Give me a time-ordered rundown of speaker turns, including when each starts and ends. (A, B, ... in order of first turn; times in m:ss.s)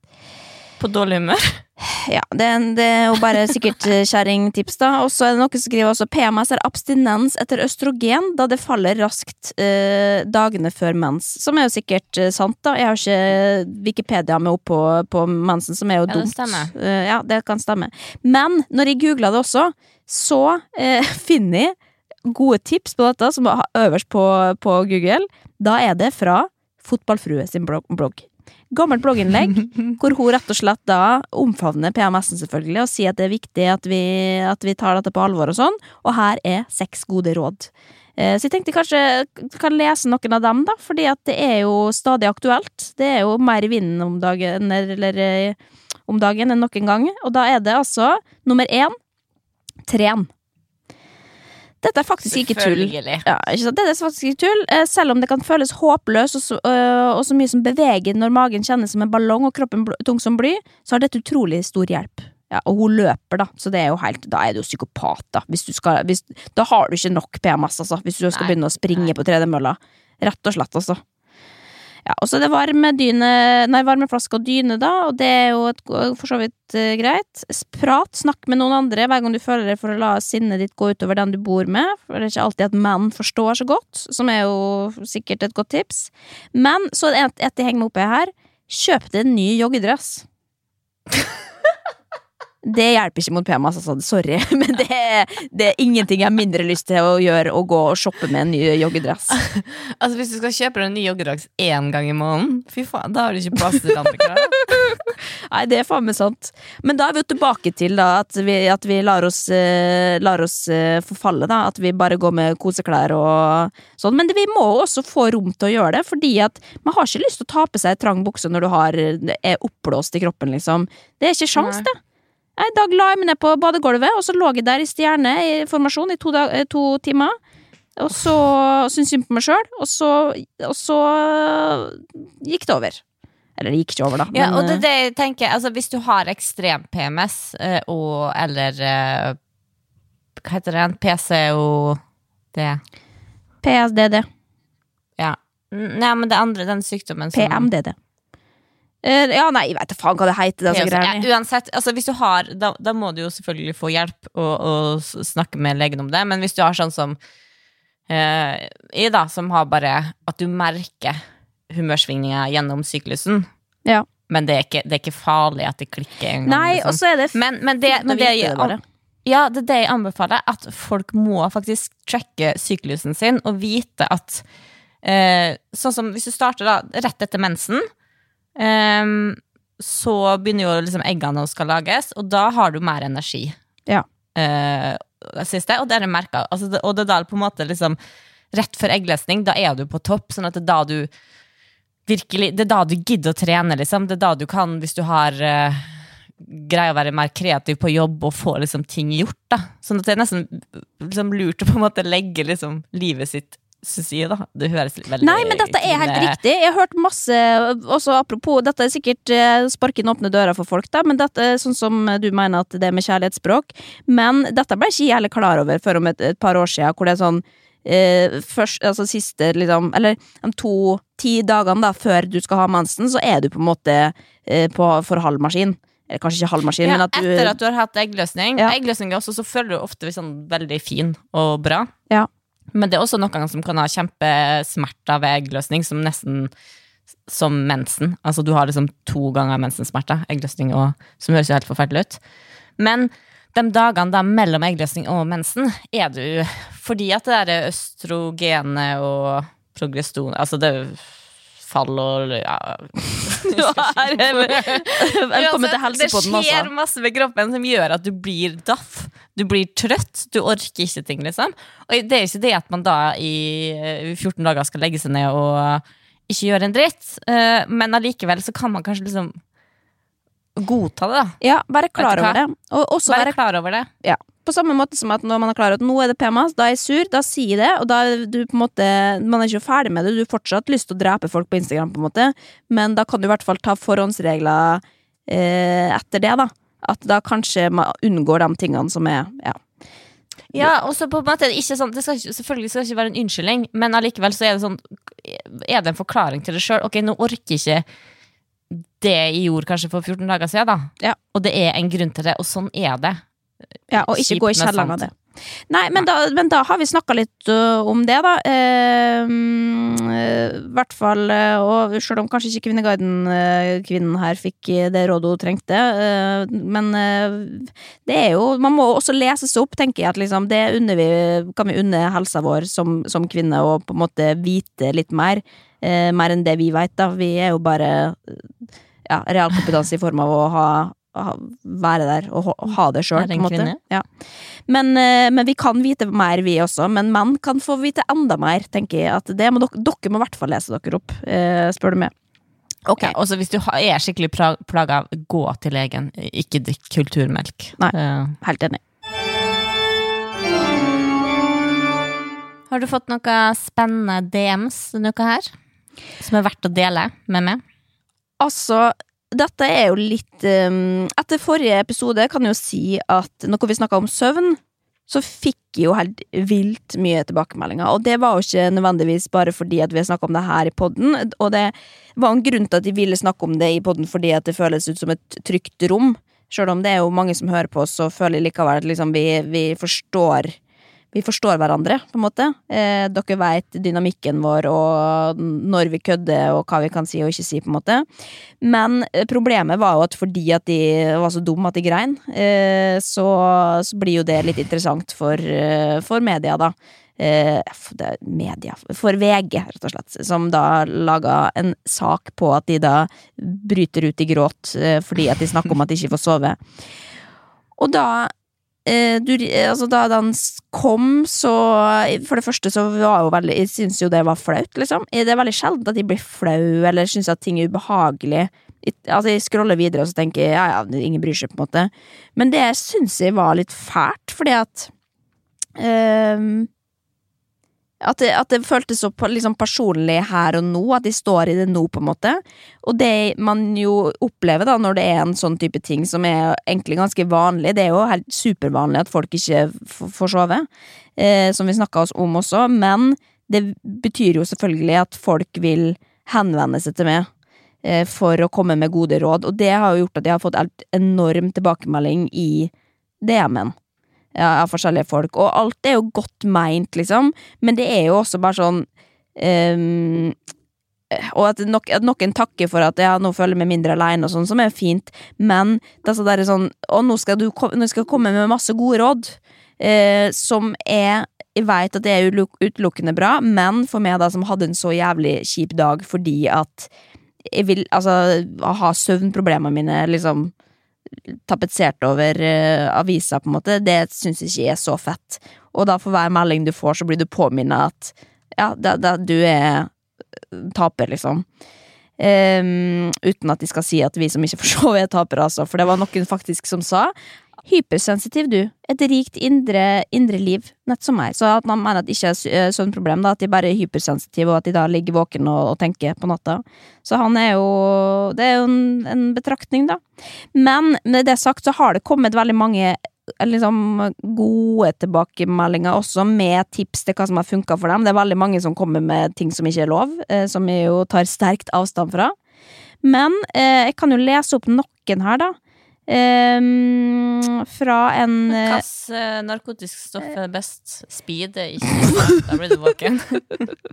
0:00.8-0:01.6 A
0:01.8-0:21.8 B
0:16.1-0:16.7 A
0:22.3-0:49.0 B
0:49.9-0:50.3 B
0:51.8-1:11.0 B
0:52.3-0:53.2 A
1:08.3-1:09.1 A
1:12.1-1:30.2 B
1:32.6-1:39.4 B
1:39.4-1:44.7 A
1:44.7-2:02.0 B
2:01.6-2:01.9 A
2:02.6-2:07.4 B
2:08.0-2:13.0 B
2:13.6-2:14.8 B
2:14.3-2:19.4 A
2:20.4-2:22.0 A
2:22.5-2:22.8 A
2:23.6-2:24.3 B
2:25.2-2:27.7 A
2:27.4-2:28.0 B
2:29.0-2:31.3 B
2:30.7-2:37.2 A
2:38.1-2:43.5 A
2:44.3-2:54.4 A
2:46.4-2:48.8 B
2:55.0-2:57.9 A
2:58.6-3:03.6 A
3:04.4-3:08.0 A
3:08.5-3:11.1 A
3:12.1-3:26.4 A
3:25.2-3:47.6 B
3:46.8-3:51.9 A
3:52.7-3:56.5 A
3:57.3-4:02.2 A
4:02.8-4:29.4 A
4:13.5-4:16.7 B
4:30.6-4:31.4 A
4:31.4-4:33.4 B
4:32.0-4:32.4 A
4:33.1-4:33.9 A
4:34.0-4:49.6 B
4:50.5-4:57.8 A
4:58.7-5:03.2 A
5:03.9-5:05.1 B
5:04.0-5:05.0 A
5:05.7-5:28.5 B
5:29.1-5:34.1 B
5:33.2-5:33.8 A
5:34.7-5:42.1 B
5:42.9-5:43.2 B
5:43.0-5:48.4 A
5:47.8-5:48.8 B
5:52.7-5:55.5 A
5:56.2-5:57.6 A
5:58.4-6:20.6 B
6:21.1-6:28.1 B
6:28.6-6:46.6 B
6:47.8-6:48.3 B
6:48.9-7:04.9 B
7:05.8-7:06.7 B
7:08.0-7:27.3 B
7:27.8-7:32.7 B
7:33.2-7:33.7 B
7:34.4-7:40.4 B
7:41.1-7:56.9 B
7:57.5-8:00.5 B
8:01.3-8:09.9 B
8:10.5-8:11.4 B
8:12.2-8:30.0 B
8:30.6-8:42.4 B
8:43.0-8:45.6 B
8:46.1-8:48.8 B
8:48.5-8:53.7 A